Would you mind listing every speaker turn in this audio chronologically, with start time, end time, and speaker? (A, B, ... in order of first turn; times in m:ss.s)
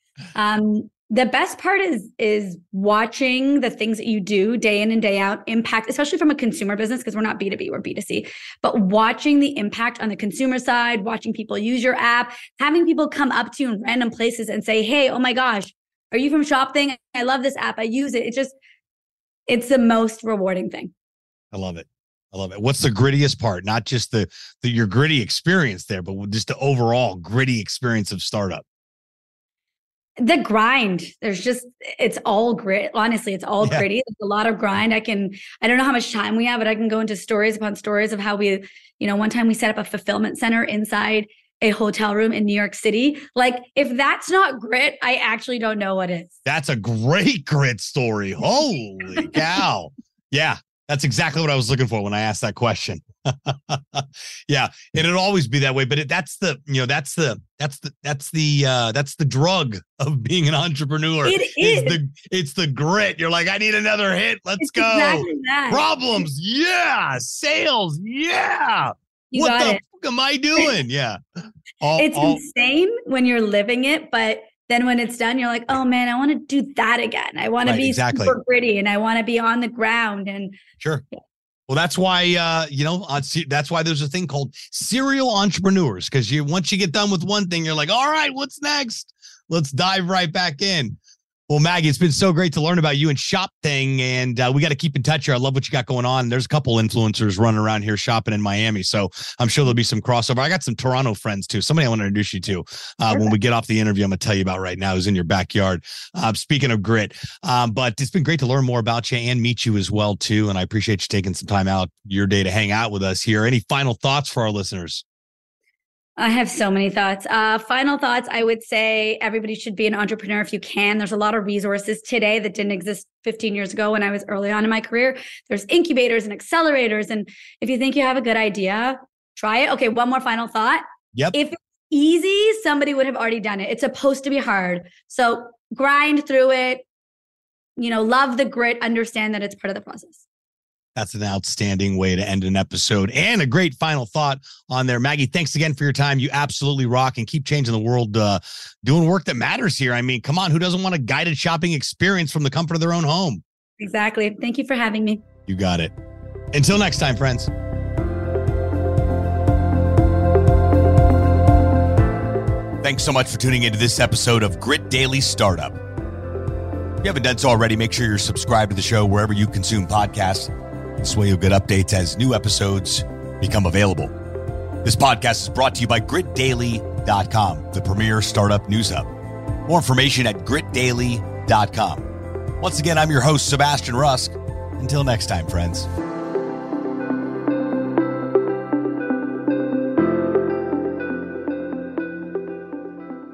0:00.3-0:18.6 A
0:19.5-0:20.9 A
0:21.5-0:28.6 B
0:30.2-0:46.4 A
0:33.6-0:33.8 B
0:46.4-1:11.2 B
1:01.2-1:02.0 A
1:04.6-1:06.0 A
1:09.3-1:09.8 A
1:11.8-1:12.4 B
1:12.0-1:20.6 A
1:17.6-1:18.3 B
1:21.7-1:31.0 B
1:31.5-1:55.0 B
1:56.2-2:16.8 A
2:17.8-2:20.2 A
2:20.9-2:33.4 B
2:33.8-2:35.2 A
2:35.5-2:35.9 B
2:36.5-2:37.5 B
2:42.8-2:45.8 B
2:47.0-2:54.1 B
2:54.8-2:59.1 B
2:59.6-3:02.1 B
3:02.6-3:05.9 B